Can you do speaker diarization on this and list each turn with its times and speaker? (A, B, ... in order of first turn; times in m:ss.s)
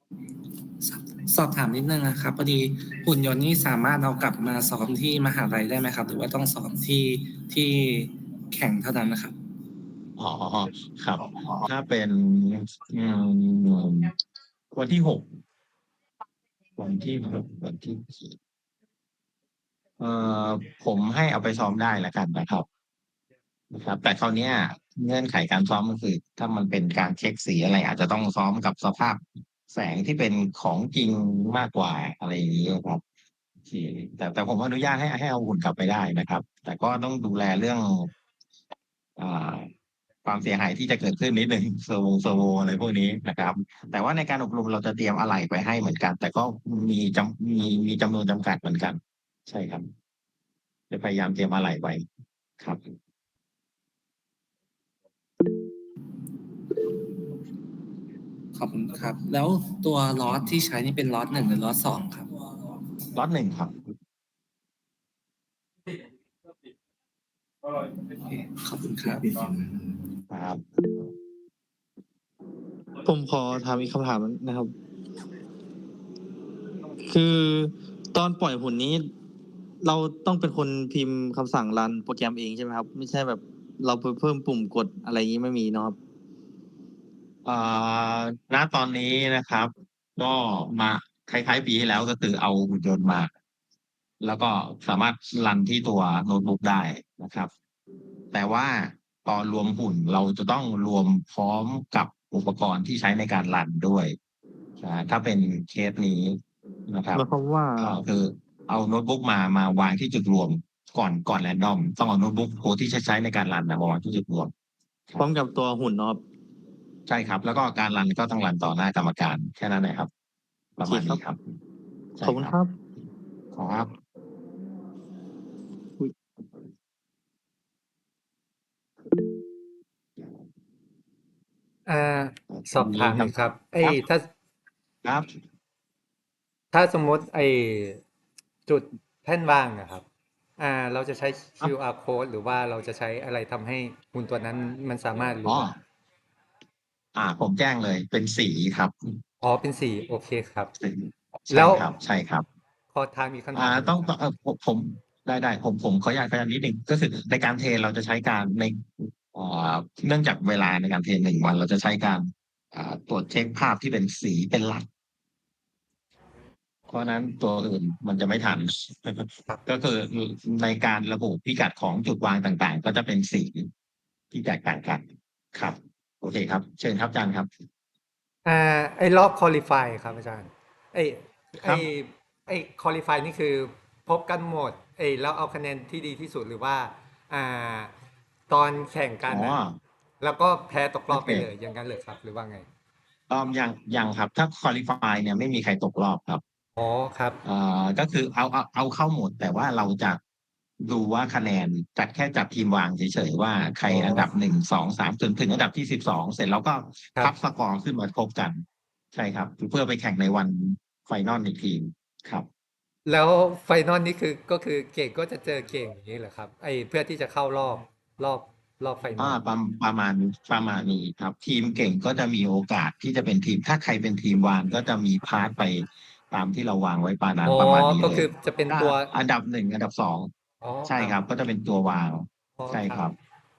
0:00.8-0:09.3 A
0:10.2-0:14.1 B
0:14.7-0:15.4 B
0:16.8-0:18.4 B
0:20.0-0:22.7 B
0:23.7-0:33.0 B
0:33.6-0:38.1 B
0:39.2-0:39.7 B
0:40.2-0:49.9 B
0:50.9-0:52.0 B
0:58.5-1:02.3 A
1:03.1-1:03.8 B
1:08.1-1:10.1 A
1:10.3-1:10.6 B
1:13.0-1:14.7 C
1:17.0-1:19.1 C
1:19.8-1:26.0 C
1:27.4-1:33.3 B
1:34.2-1:37.5 B
1:38.3-1:44.2 B
1:44.8-1:47.2 B
1:47.1-1:48.0 C
1:47.8-1:54.5 B
1:55.2-1:56.2 C
1:57.1-2:00.1 B
2:00.8-2:01.4 B
2:00.8-2:01.2 C
2:02.1-2:02.5 B
2:02.2-2:02.7 C
2:03.5-2:03.9 B
2:11.9-2:14.3 D
2:12.5-2:14.0 B
2:15.0-2:15.3 B
2:16.7-2:18.0 D
2:18.7-2:20.0 D
2:20.6-2:25.7 D
2:25.4-2:25.7 B
2:27.1-2:29.2 B
2:29.4-2:30.7 D
2:30.8-2:32.4 B
2:31.5-2:31.9 D
2:32.9-2:34.1 D
2:33.5-2:44.9 B
2:46.9-2:53.7 B
2:54.3-2:55.0 B
2:55.5-2:57.5 B
2:58.4-3:07.9 D
3:01.6-3:01.9 B
3:08.5-3:09.6 D
3:09.3-3:09.8 B
3:10.2-3:12.6 D
3:11.1-3:11.5 B
3:13.3-3:16.4 B
3:16.8-3:17.4 D
3:17.4-3:20.2 B
3:20.8-3:32.5 B
3:23.9-3:24.3 D
3:33.1-3:39.4 D
3:39.2-3:50.3 B
3:47.5-3:49.1 D
3:50.6-3:51.2 D
3:50.8-3:53.1 B
3:52.6-3:53.1 D